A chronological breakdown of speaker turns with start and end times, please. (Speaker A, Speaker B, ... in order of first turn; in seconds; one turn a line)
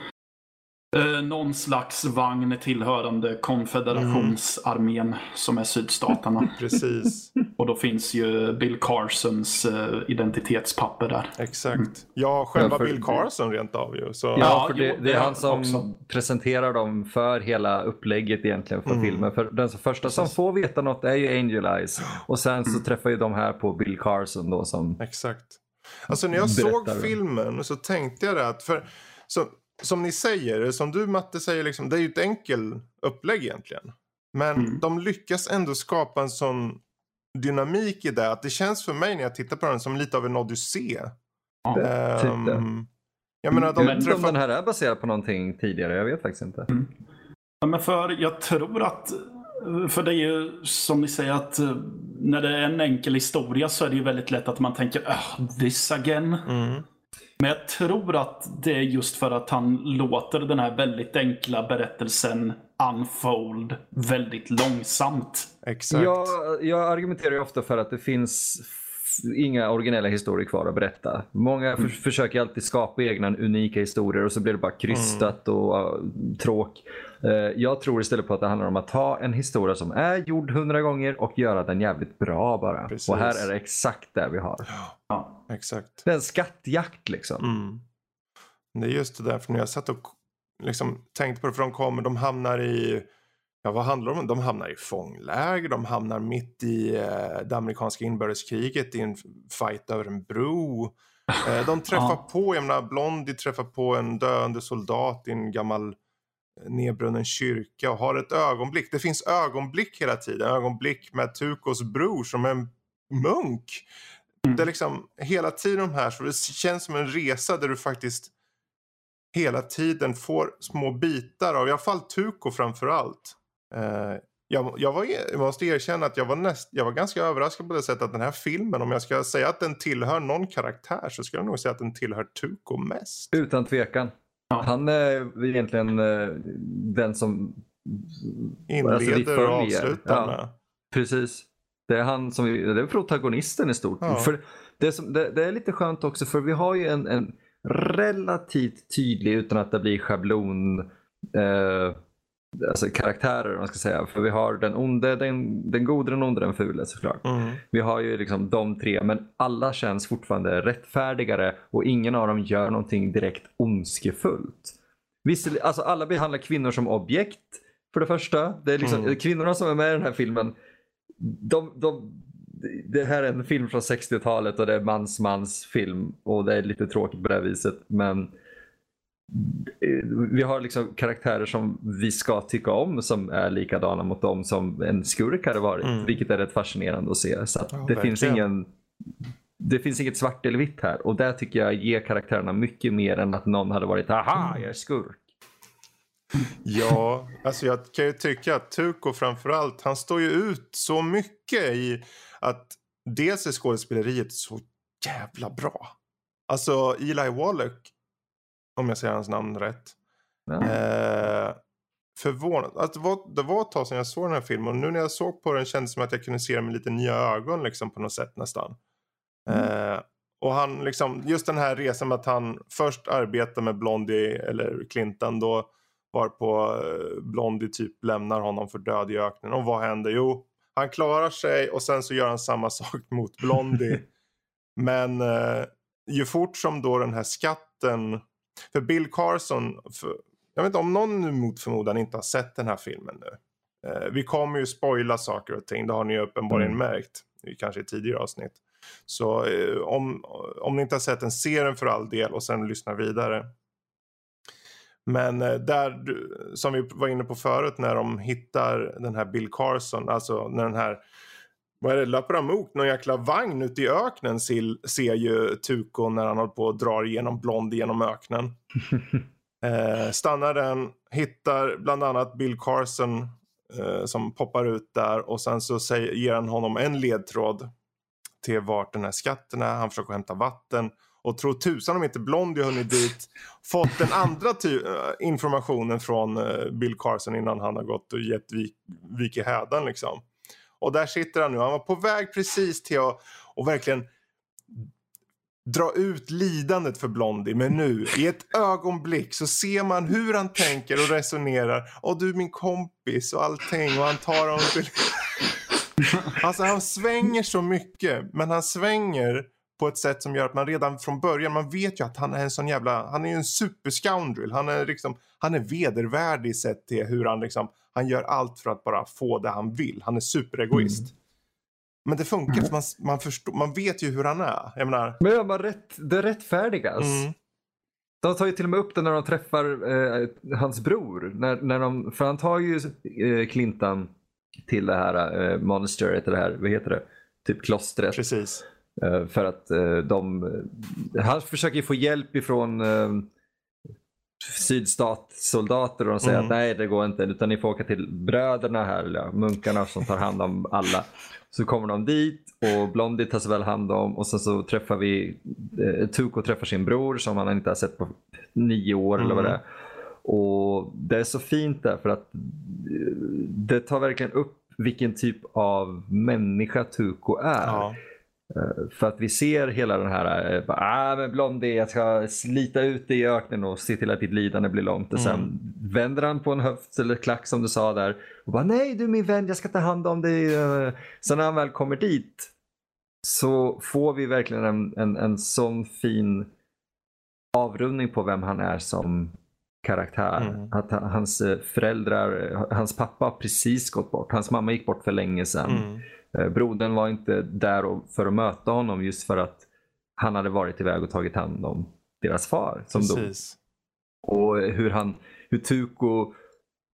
Speaker A: 0.9-6.5
Speaker B: 3.9-4.4
Speaker B: 6.6-7.3
Speaker A: 7.6-11.9
Speaker B: 11.4-14.6
Speaker C: 12.6-13.2
Speaker C: 14.4-25.0
Speaker A: 14.4-15.9
Speaker B: 18.9-19.3
Speaker B: 25.0-36.8
Speaker C: 26.4-27.1
Speaker A: 34.6-34.8
Speaker B: 37.3-41.2
Speaker C: 41.8-42.7
Speaker B: 41.8-42.9
Speaker B: 43.4-44.4
Speaker C: 43.5-46.7
Speaker A: 43.8-44.1
Speaker A: 47.6-56.5
Speaker B: 56.5-56.8
Speaker A: 57.4-65.5
Speaker B: 65.6-66.3
Speaker C: 65.9-84.7
Speaker B: 74.9-75.3
Speaker B: 82.9-83.5
Speaker A: 85.1-85.4
Speaker B: 85.5-86.0
Speaker C: 86.0-87.5
Speaker B: 87.4-87.8
Speaker B: 88.7-93.1
Speaker B: 93.6-106.0
Speaker A: 101.9-102.2
Speaker B: 106.6-113.9
Speaker B: 114.5-118.3
Speaker B: 119.3-133.3
Speaker C: 133.3-140.4
Speaker B: 138.7-140.5
Speaker C: 140.9-152.0
Speaker B: 144.0-144.3
Speaker C: 152.6-170.5
Speaker B: 157.2-157.6
Speaker B: 168.8-169.2
Speaker C: 171.2-178.3
Speaker C: 179.3-188.7
Speaker B: 185.8-186.2
Speaker B: 187.7-188.5
Speaker C: 189.6-195.2
Speaker B: 196.6-205.9
Speaker B: 206.5-207.9
Speaker B: 208.8-210.0
Speaker C: 210.5-210.7
Speaker B: 210.6-211.6
Speaker B: 212.2-218.8
Speaker B: 219.5-234.1
Speaker B: 234.8-253.5
Speaker B: 255.1-261.0
Speaker B: 261.8-268.6
Speaker B: 269.6-277.7
Speaker B: 278.4-290.2
Speaker B: 290.8-294.1
Speaker B: 295.7-305.2
Speaker B: 306.3-321.1
Speaker C: 320.7-321.0
Speaker B: 322.1-325.2
Speaker C: 325.2-327.3
Speaker B: 327.0-327.3
Speaker C: 328.2-334.1
Speaker C: 334.7-338.2
Speaker B: 338.1-338.6
Speaker C: 339.0-343.3
Speaker C: 344.4-359.6
Speaker B: 346.2-346.6
Speaker B: 359.2-359.6
Speaker C: 360.2-367.9
Speaker B: 367.6-368.0
Speaker C: 368.5-382.5
Speaker B: 375.1-375.5
Speaker C: 383.2-386.5
Speaker C: 387.5-399.6
Speaker B: 390.4-390.7
Speaker B: 395.6-396.0
Speaker C: 400.2-403.3
Speaker B: 402.9-403.6
Speaker C: 404.2-406.3